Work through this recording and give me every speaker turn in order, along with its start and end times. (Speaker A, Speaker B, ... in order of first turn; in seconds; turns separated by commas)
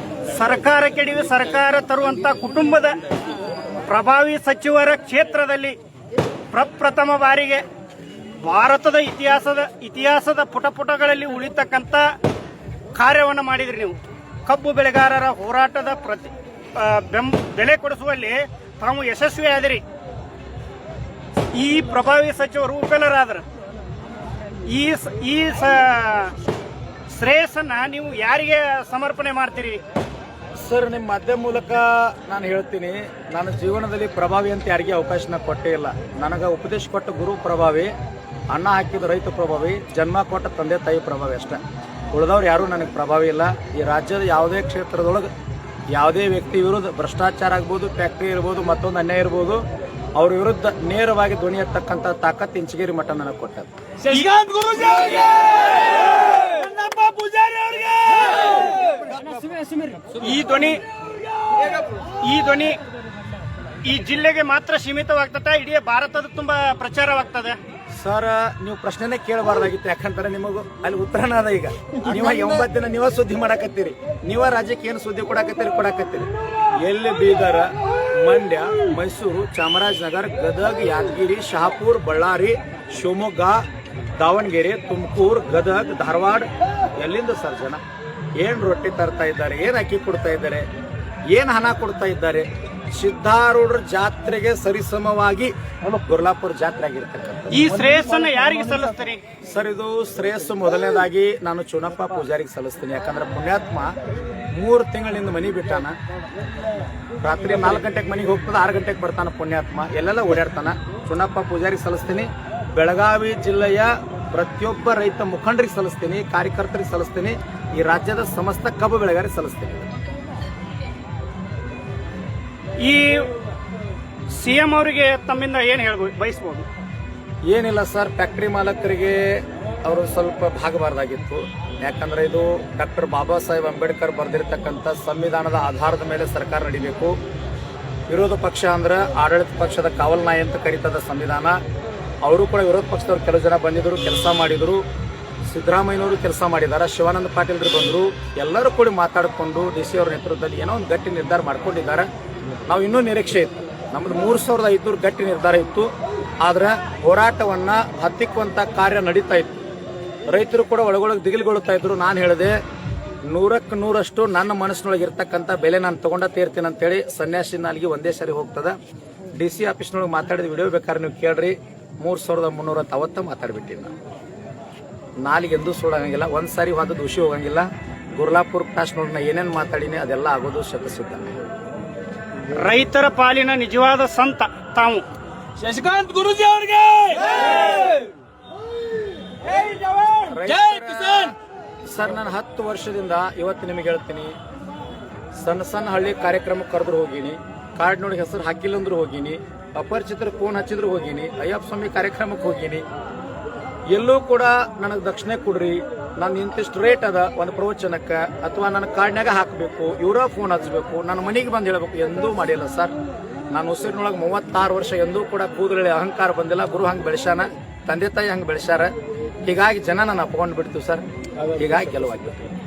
Speaker A: 0.3-3.0, Speaker A: 3.9-5.8, Speaker A: 6.5-7.7, Speaker A: 8.4-12.2, Speaker A: 12.9-19.8, Speaker A: 21.5-23.4, Speaker A: 24.7-26.4, Speaker A: 27.1-29.8, Speaker B: 30.6-37.9, Speaker B: 38.5-41.6, Speaker B: 42.1-45.3, Speaker B: 45.9-49.6, Speaker B: 50.2-53.7, Speaker C: 54.0-59.8, Speaker A: 60.1-60.8, Speaker A: 62.2-62.8, Speaker A: 63.8-67.6, Speaker B: 68.0-83.6, Speaker B: 84.2-86.5, Speaker B: 87.0-87.8, Speaker B: 88.4-90.7, Speaker B: 91.3-97.7, Speaker A: 97.5-99.2, Speaker B: 99.5-103.9, Speaker B: 104.5-105.9, Speaker B: 107.2-119.9, Speaker A: 122.8-123.3, Speaker A: 124.3-126.7, Speaker B: 127.5-137.2, Speaker B: 138.1-141.6, Speaker B: 142.2-144.8, Speaker B: 145.5-152.1, Speaker B: 152.7-155.9, Speaker B: 156.4-159.6, Speaker B: 160.3-162.6, Speaker B: 163.3-168.8, Speaker B: 169.3-173.9, Speaker B: 175.2-177.7, Speaker B: 178.2-181.4, Speaker A: 182.4-185.1, Speaker C: 185.6-188.0, Speaker C: 189.5-191.3, Speaker B: 190.2-191.3, Speaker B: 191.9-194.3, Speaker B: 195.4-202.8, Speaker B: 203.9-212.9, Speaker B: 213.5-218.9, Speaker B: 219.4-222.5